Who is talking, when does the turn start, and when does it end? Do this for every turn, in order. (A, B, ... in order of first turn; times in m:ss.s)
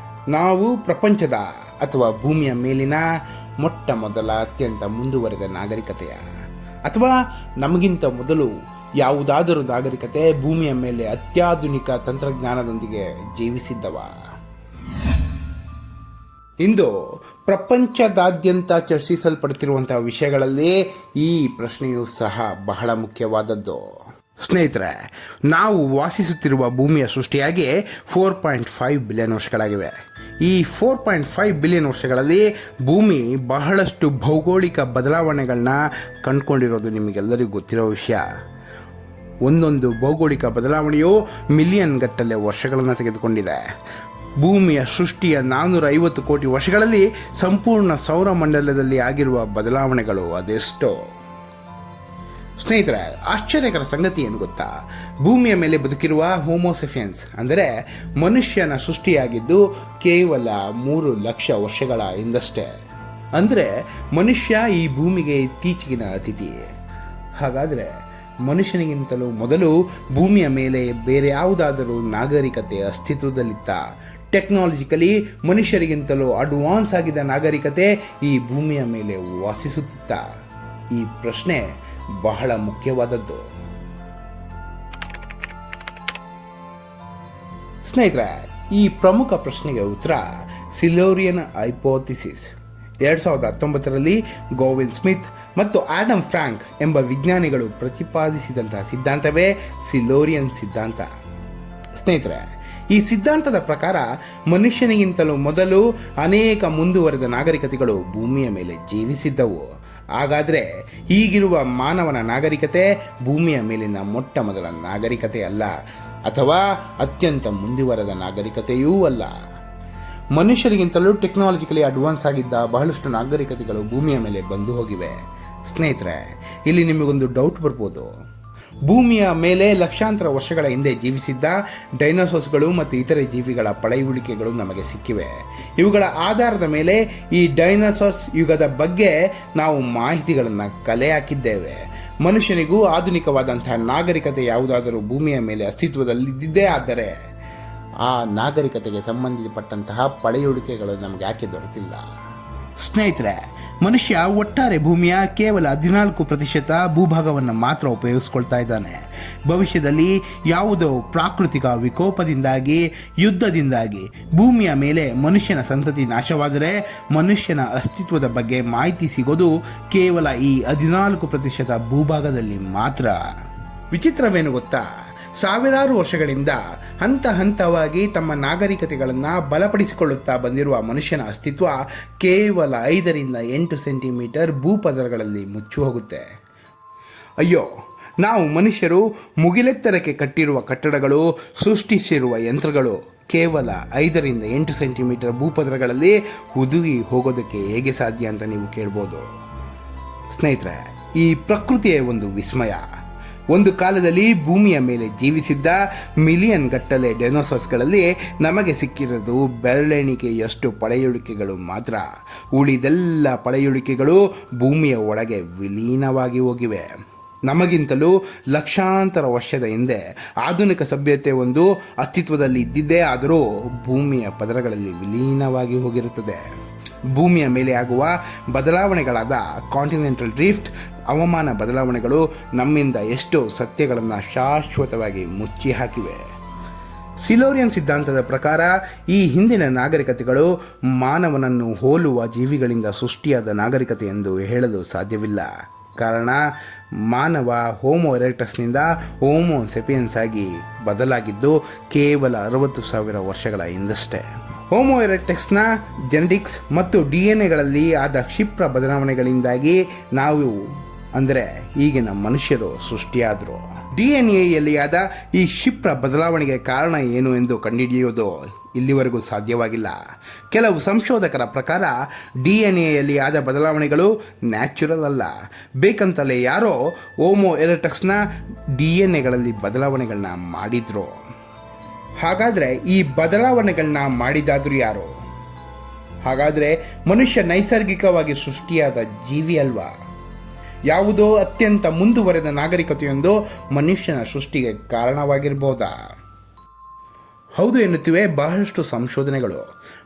0:00.3-0:03.0 A
0:03.6-0:06.2 A
0:06.9-0:14.2 A
0:16.6-0:16.9 A
0:17.5-0:23.8 A
0:24.4-0:25.0 A
0:25.5-0:38.2 A
0:39.4-0:43.6 A
0:44.4-0:51.0 A
0:52.6-0:54.7 A
0:55.2-0:57.7 A
0:58.2-1:02.7 A
1:03.4-1:06.7 A
1:07.4-1:07.9 A
1:08.4-1:13.8 A
1:14.3-1:20.2 A
1:20.9-1:21.7 A
1:22.2-1:23.4 A
1:27.8-1:32.5 A
1:33.0-1:41.1 A
1:42.0-1:49.7 A
1:50.2-1:55.7 A
1:56.3-1:59.3 A
2:00.3-2:08.1 A
2:08.9-2:27.1 A
2:28.0-2:32.0 A
2:32.8-2:53.2 A
2:53.9-2:54.9 A
2:55.4-3:06.2 A
3:07.4-3:07.7 A
3:08.2-3:19.2 A
3:20.3-3:22.8 A
3:23.5-3:36.9 A
3:37.5-3:46.4 A
3:47.1-3:56.2 A
3:57.2-4:06.4 A
4:07.1-4:20.6 A
4:21.2-4:30.0 A
4:30.5-4:38.2 A
4:38.8-4:41.1 A
4:42.2-4:45.1 A
4:46.2-4:49.9 A
4:50.9-4:56.0 A
4:57.6-4:59.7 A